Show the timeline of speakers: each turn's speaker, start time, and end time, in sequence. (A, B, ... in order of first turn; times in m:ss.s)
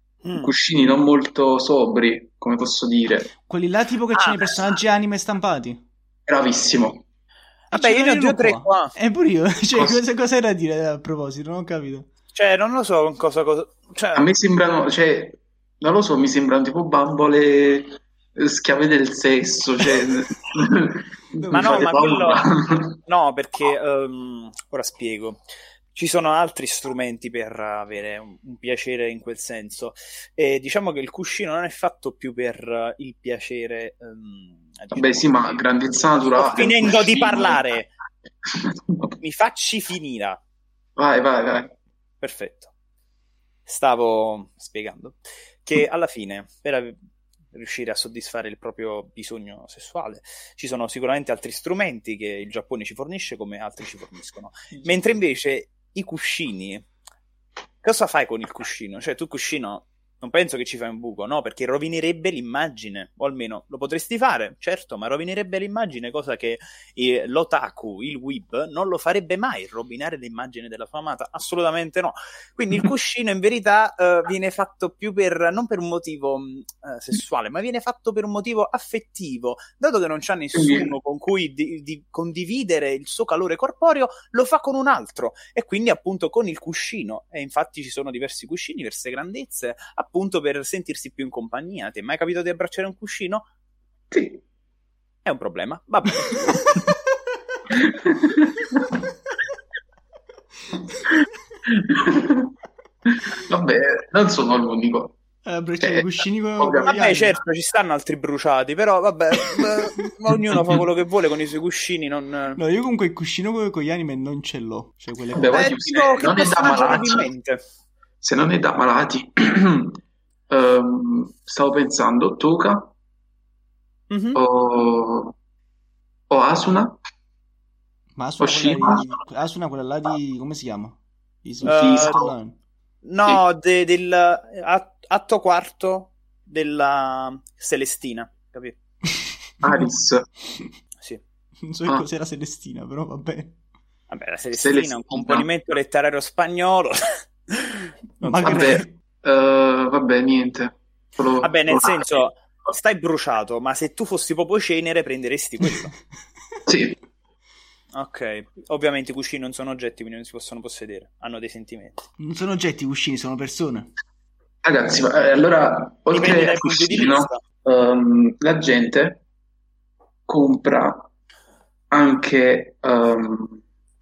0:00.2-0:00.5 A
0:00.4-0:03.3 B
0:03.5-0:05.8 C
0:04.1-0:04.8 A
0:06.3-0:07.0 B
0:07.7-0:08.9 A
0:07.7-0:12.1 C
0:09.8-0:10.0 B
0:12.4-0:14.3 A
0:14.2-0:23.0 B
0:21.4-0:22.1 C
0:21.5-0:22.5 A
0:23.1-0:25.4 A
0:26.0-0:35.6 A
0:34.9-0:37.6 B
0:36.2-0:37.9 A
0:39.2-0:40.4 A
0:41.0-0:41.8 B
0:42.2-0:42.7 A
0:43.7-0:47.0 A
0:47.5-0:56.9 A
0:57.8-1:33.4 A
1:20.5-1:20.9 B
1:34.1-1:34.4 B
1:35.2-1:36.6 A
1:37.7-1:38.7 B
1:41.9-1:42.5 B
1:43.2-1:45.2 B
1:45.4-1:47.4 C
1:45.8-1:46.9 B
1:46.8-1:52.6 A
1:52.6-1:55.7 C
1:55.4-1:57.2 B
1:55.5-1:57.6 A
1:58.2-2:00.0 B
2:00.5-2:02.9 B
2:04.1-2:04.4 A
2:04.4-2:05.3 B
2:06.3-2:07.0 B
2:08.2-2:12.6 C
2:08.4-2:09.2 B
2:11.6-2:12.3 B
2:11.7-2:12.2 A
2:13.0-2:18.8 A
2:19.1-2:19.9 C
2:19.6-2:20.2 B
2:21.6-2:23.6 C
2:24.1-2:27.0 A
2:24.6-2:25.5 B
2:27.5-2:28.8 A
2:28.2-2:28.9 C
2:28.4-2:32.3 B
2:31.4-2:35.9 A
2:36.7-2:37.0 B
2:38.0-2:42.0 A
2:42.2-2:43.9 C
2:44.6-2:49.2 B
2:46.1-2:47.4 A
2:50.3-2:51.0 B
2:51.9-2:53.6 B